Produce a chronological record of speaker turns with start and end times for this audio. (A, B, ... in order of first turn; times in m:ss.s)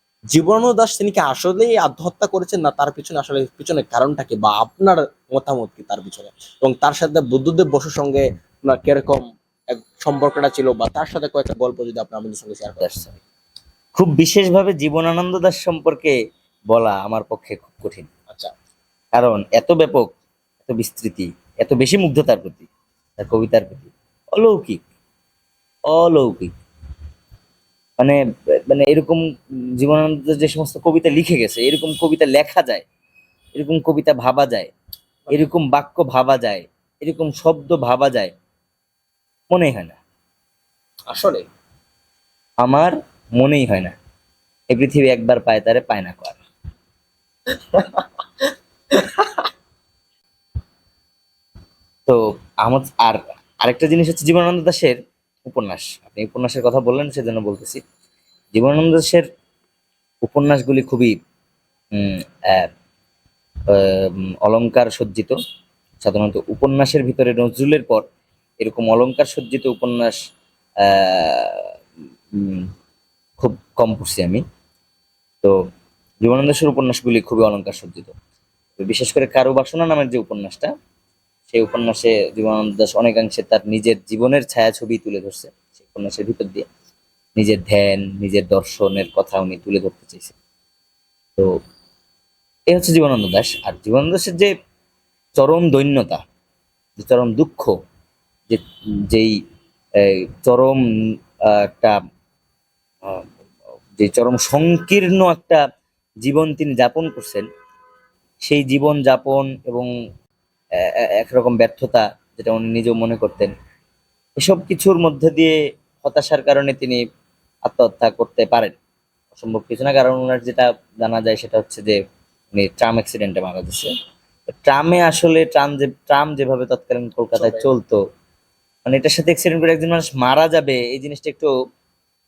0:00.3-0:12.9 A
0:12.8-0:13.2 B
0:14.0-0:16.1 B
0:16.7-0:18.1 B
0:19.2-0:20.1 B
0:20.6-0:24.8 B
0:25.9-0:26.5 B
0:28.7-0:29.2 B
0:29.8-0:32.8 B
0:33.6-0:34.7 B
0:35.3-0:38.3 B
0:39.5-0:40.0 B
0:41.1-0:41.4 A
0:42.6-0:43.9 B
0:44.7-0:46.4 B
0:47.5-0:48.1 A
0:48.9-0:49.4 A
0:52.0-0:57.8 B
0:58.5-0:59.2 B
1:00.2-1:01.2 B
1:01.9-1:02.7 B
1:03.7-1:05.3 B
1:06.0-1:08.0 B
1:08.6-1:10.2 B
1:10.8-1:11.7 B
1:12.3-1:12.7 B
1:13.4-1:14.4 B
1:16.2-1:18.1 B
1:18.8-1:20.7 B
1:21.5-1:26.6 B
1:27.4-1:30.3 B
1:32.7-1:34.5 B
1:35.4-1:36.2 B
1:37.0-1:37.7 B
1:38.5-1:39.3 B
1:40.0-1:40.8 B
1:41.5-1:41.9 B
1:44.0-1:45.6 B
1:46.2-1:47.4 B
1:48.5-1:49.9 B
1:51.2-1:53.5 B
1:54.4-1:57.0 B
1:57.6-1:58.7 B
1:59.3-2:01.9 B
2:02.5-2:03.9 B
2:04.6-2:08.0 B
2:07.3-2:07.7 A
2:08.8-2:11.5 B